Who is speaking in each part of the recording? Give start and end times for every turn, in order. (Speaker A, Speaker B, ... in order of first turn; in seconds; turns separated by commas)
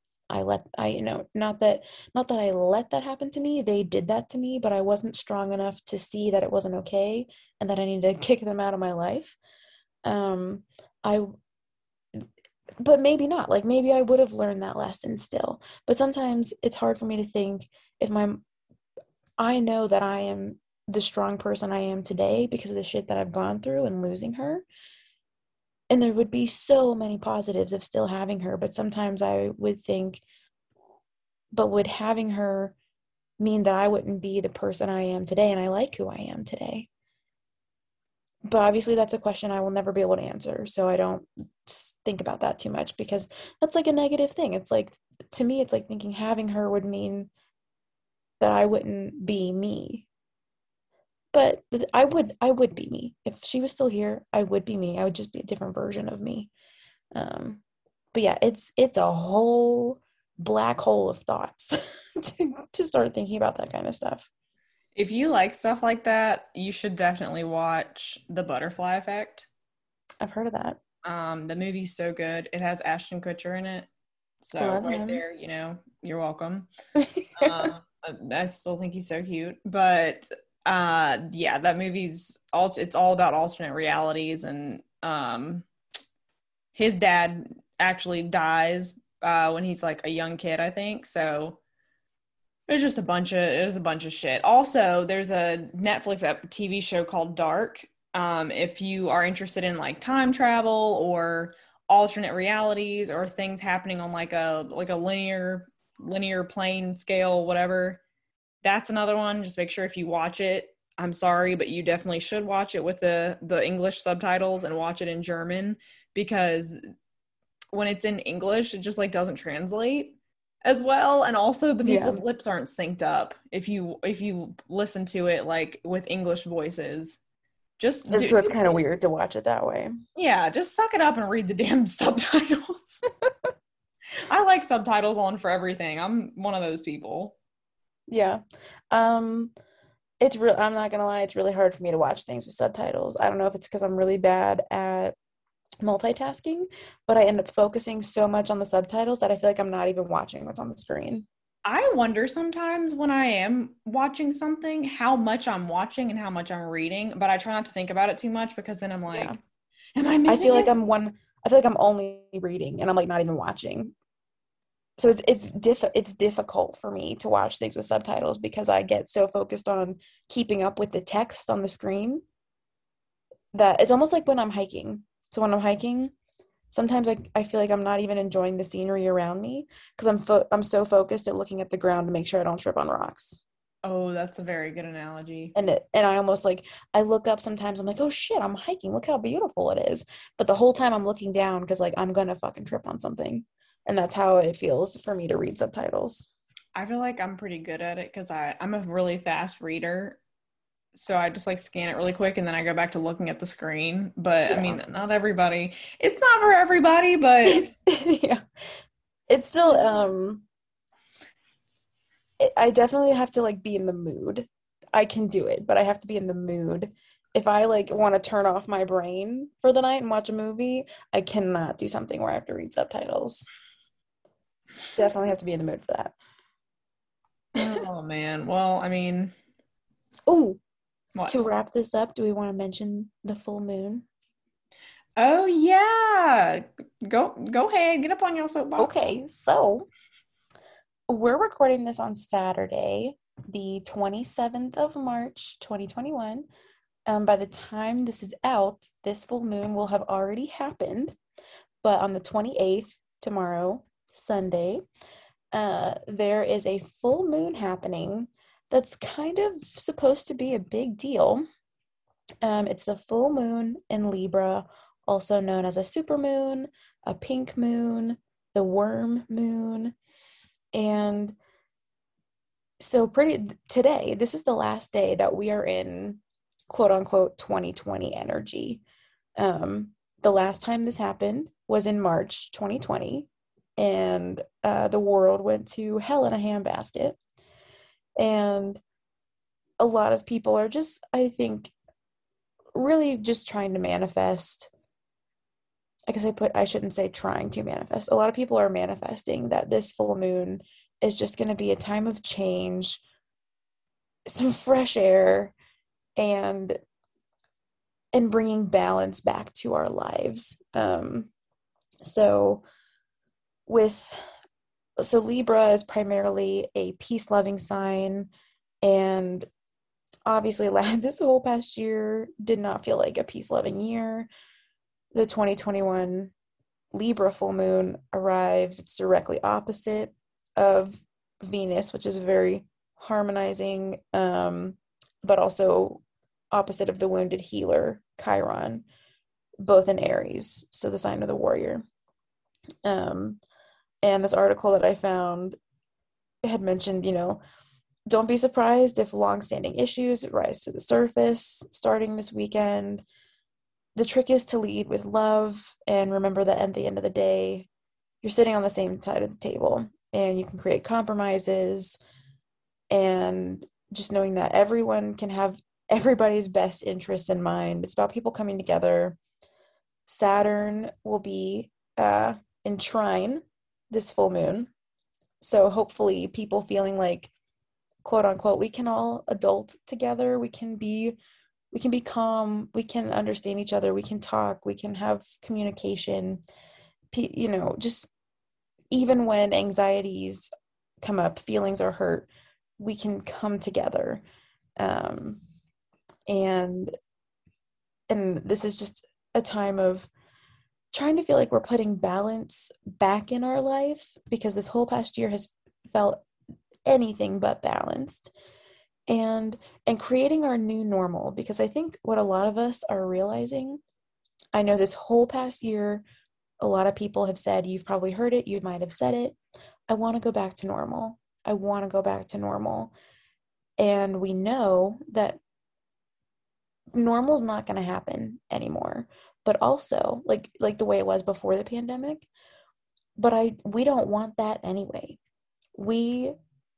Speaker A: 0.3-9.4, Speaker A: 10.0-11.3, Speaker A: 12.8-18.4, Speaker A: 19.4-24.7, Speaker A: 25.9-30.2, Speaker A: 31.5-32.7, Speaker A: 33.4-36.9, Speaker A: 38.5-47.3, Speaker A: 48.4-50.1, Speaker A: 51.3-56.5, Speaker A: 57.1-57.6, Speaker A: 58.1-64.3, Speaker B: 65.0-69.5, Speaker A: 70.2-70.8, Speaker B: 71.0-73.9, Speaker B: 74.4-76.7, Speaker A: 74.6-75.2, Speaker A: 77.0-77.7, Speaker B: 77.4-85.7, Speaker B: 86.7-91.6, Speaker B: 92.7-108.0, Speaker B: 108.6-116.8, Speaker B: 117.7-127.2, Speaker A: 121.8-122.2, Speaker B: 127.8-128.7, Speaker A: 128.1-129.9, Speaker B: 130.2-133.0, Speaker B: 134.3-137.4, Speaker A: 138.1-139.5, Speaker A: 140.2-145.2, Speaker A: 145.8-151.3, Speaker B: 151.7-159.4, Speaker A: 159.1-159.4, Speaker B: 159.9-160.7, Speaker A: 160.3-163.9, Speaker A: 165.0-172.2, Speaker A: 173.5-176.1, Speaker A: 176.7-183.4, Speaker B: 183.8-185.5, Speaker A: 185.6-196.3, Speaker B: 196.7-200.2, Speaker B: 200.9-207.7, Speaker A: 204.5-204.8, Speaker A: 207.4-208.4, Speaker A: 209.3-210.4, Speaker A: 212.4-223.5, Speaker A: 225.0-226.2, Speaker B: 227.6-229.3, Speaker A: 230.3-230.6, Speaker A: 231.3-234.1, Speaker B: 235.2-238.9, Speaker A: 238.8-239.9, Speaker A: 241.1-246.5, Speaker A: 247.1-251.2, Speaker A: 251.8-254.8, Speaker A: 255.5-261.4, Speaker A: 262.4-269.9, Speaker A: 270.7-271.4, Speaker A: 272.8-278.8, Speaker A: 279.4-287.2, Speaker A: 288.2-288.8, Speaker A: 289.8-291.7, Speaker A: 292.7-294.7, Speaker A: 296.1-303.0, Speaker A: 304.3-305.5, Speaker A: 306.2-306.8, Speaker A: 308.1-311.3, Speaker A: 312.0-312.6, Speaker A: 313.7-314.2, Speaker A: 315.0-318.3, Speaker A: 318.8-319.5, Speaker A: 320.3-324.3, Speaker A: 325.1-326.3, Speaker A: 326.9-338.9, Speaker A: 339.6-341.8, Speaker A: 342.9-343.4, Speaker A: 344.0-345.6, Speaker A: 346.4-347.4, Speaker A: 348.1-353.0, Speaker A: 353.9-357.7, Speaker A: 358.2-362.0, Speaker A: 362.9-369.2, Speaker A: 370.1-374.7, Speaker A: 375.4-377.3, Speaker A: 378.0-381.2, Speaker A: 381.7-386.4, Speaker A: 387.1-388.1, Speaker A: 388.9-390.5, Speaker A: 391.0-392.3, Speaker A: 392.8-394.2, Speaker A: 394.8-395.4, Speaker A: 396.3-396.9, Speaker A: 398.1-400.1, Speaker A: 400.9-406.2, Speaker A: 406.9-408.3, Speaker A: 409.1-413.8, Speaker A: 414.5-416.0, Speaker A: 416.6-419.4, Speaker A: 419.9-422.9, Speaker A: 423.8-425.4, Speaker A: 426.9-432.3, Speaker A: 433.2-435.2, Speaker A: 435.7-436.4